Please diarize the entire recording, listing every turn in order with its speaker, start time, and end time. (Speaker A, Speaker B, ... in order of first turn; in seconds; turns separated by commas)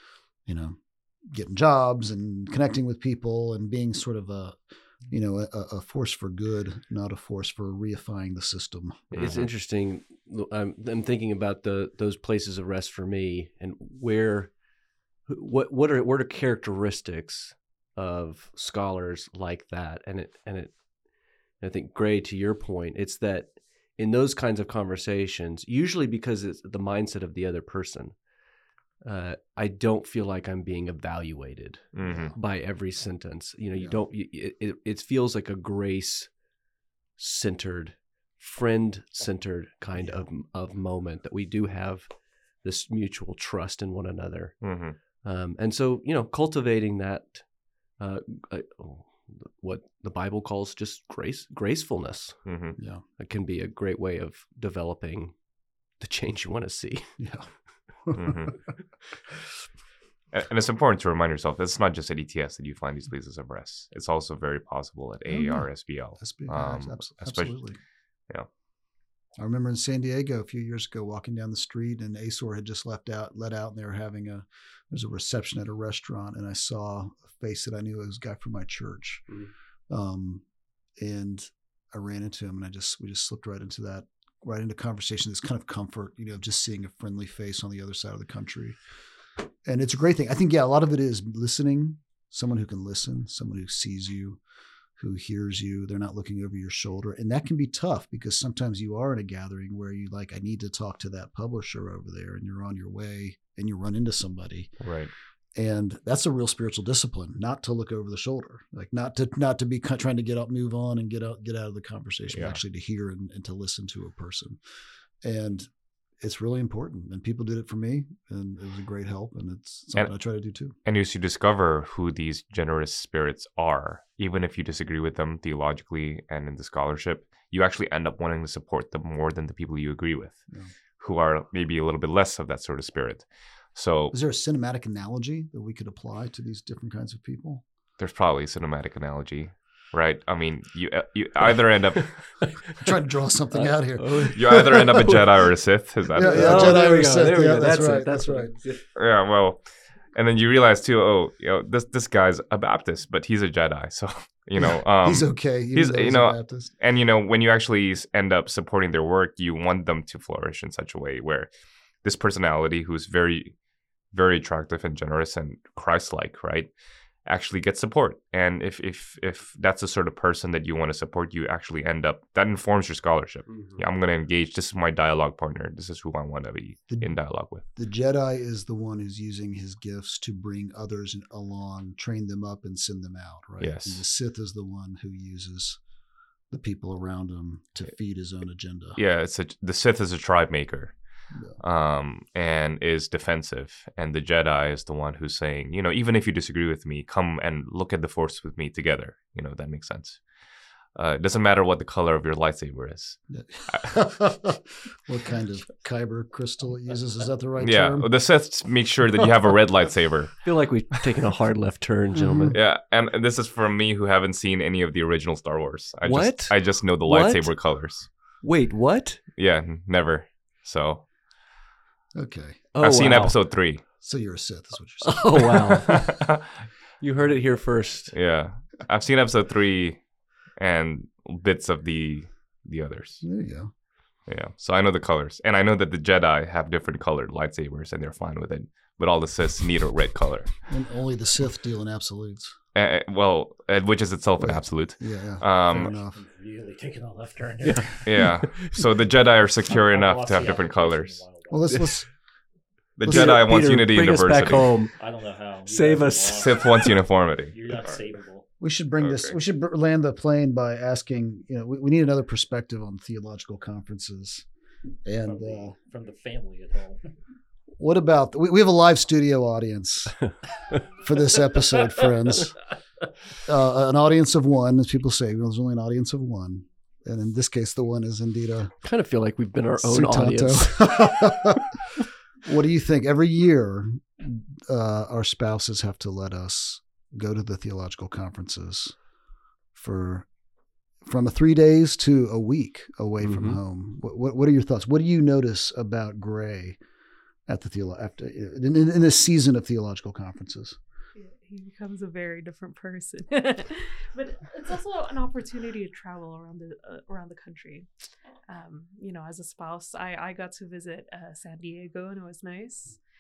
Speaker A: 0.5-9.5, Speaker B: 9.1-14.6, Speaker C: 9.2-9.5, Speaker B: 15.3-20.8, Speaker B: 21.6-28.2, Speaker B: 29.1-36.4, Speaker C: 31.9-32.3, Speaker A: 32.0-32.4, Speaker B: 37.2-52.5, Speaker A: 40.0-40.3, Speaker C: 44.6-45.0, Speaker C: 52.5-52.8, Speaker A: 52.8-53.0, Speaker B: 53.2-55.4, Speaker B: 56.0-57.2, Speaker A: 57.2-58.6, Speaker C: 58.1-58.5, Speaker C: 60.3-67.6, Speaker A: 65.3-67.8, Speaker A: 69.4-79.4, Speaker A: 79.9-80.4, Speaker A: 81.0-88.8, Speaker A: 89.7-94.4, Speaker A: 95.0-104.8, Speaker C: 104.8-105.1, Speaker A: 105.6-114.6, Speaker C: 112.3-112.6, Speaker A: 115.2-115.7, Speaker A: 116.2-120.7, Speaker C: 120.8-130.5, Speaker C: 131.0-134.2, Speaker A: 134.1-137.6, Speaker C: 138.0-142.4, Speaker B: 142.4-142.8, Speaker A: 142.8-144.7, Speaker B: 143.5-145.4, Speaker C: 144.3-146.9, Speaker A: 146.2-148.5, Speaker B: 146.2-148.9, Speaker C: 149.0-149.6, Speaker C: 150.1-161.5, Speaker A: 154.6-156.7, Speaker C: 162.0-163.5, Speaker C: 164.1-166.7, Speaker C: 167.3-177.7, Speaker B: 173.5-173.8, Speaker A: 176.9-177.2, Speaker A: 177.8-185.8, Speaker C: 183.6-184.0, Speaker A: 186.5-189.0, Speaker C: 189.0-191.0, Speaker C: 191.6-200.2, Speaker C: 200.9-203.9, Speaker A: 203.3-208.1, Speaker C: 207.6-210.4, Speaker B: 210.4-212.6, Speaker A: 212.2-212.6, Speaker C: 212.5-218.1, Speaker B: 216.0-217.6, Speaker B: 218.4-219.2, Speaker C: 219.4-221.1, Speaker A: 222.2-222.7, Speaker B: 222.8-223.4, Speaker C: 222.8-223.8, Speaker A: 223.9-225.9, Speaker B: 225.0-226.1, Speaker C: 226.0-226.3, Speaker B: 227.0-228.2, Speaker C: 228.1-230.0, Speaker C: 230.6-233.2, Speaker A: 233.2-233.7, Speaker C: 234.3-240.6, Speaker A: 240.7-242.6, Speaker C: 242.8-245.9, Speaker A: 244.4-246.2, Speaker D: 245.8-248.3, Speaker B: 247.6-248.8, Speaker C: 248.1-251.2, Speaker D: 249.7-251.9, Speaker A: 251.5-252.1, Speaker C: 253.0-254.8, Speaker A: 253.0-253.4, Speaker B: 253.1-255.0, Speaker D: 254.9-257.0, Speaker B: 255.7-256.9, Speaker C: 256.4-258.0, Speaker D: 257.5-258.5, Speaker A: 258.6-264.5, Speaker C: 259.0-259.4, Speaker A: 265.1-265.8, Speaker D: 265.2-267.1, Speaker A: 267.8-270.3, Speaker A: 270.9-272.6, Speaker A: 273.4-278.8, Speaker B: 278.8-281.3, Speaker A: 279.8-281.8, Speaker A: 282.4-289.0, Speaker A: 289.8-290.3, Speaker A: 291.0-296.8, Speaker B: 293.2-293.6, Speaker A: 297.5-300.8, Speaker E: 301.1-307.9, Speaker E: 308.5-313.0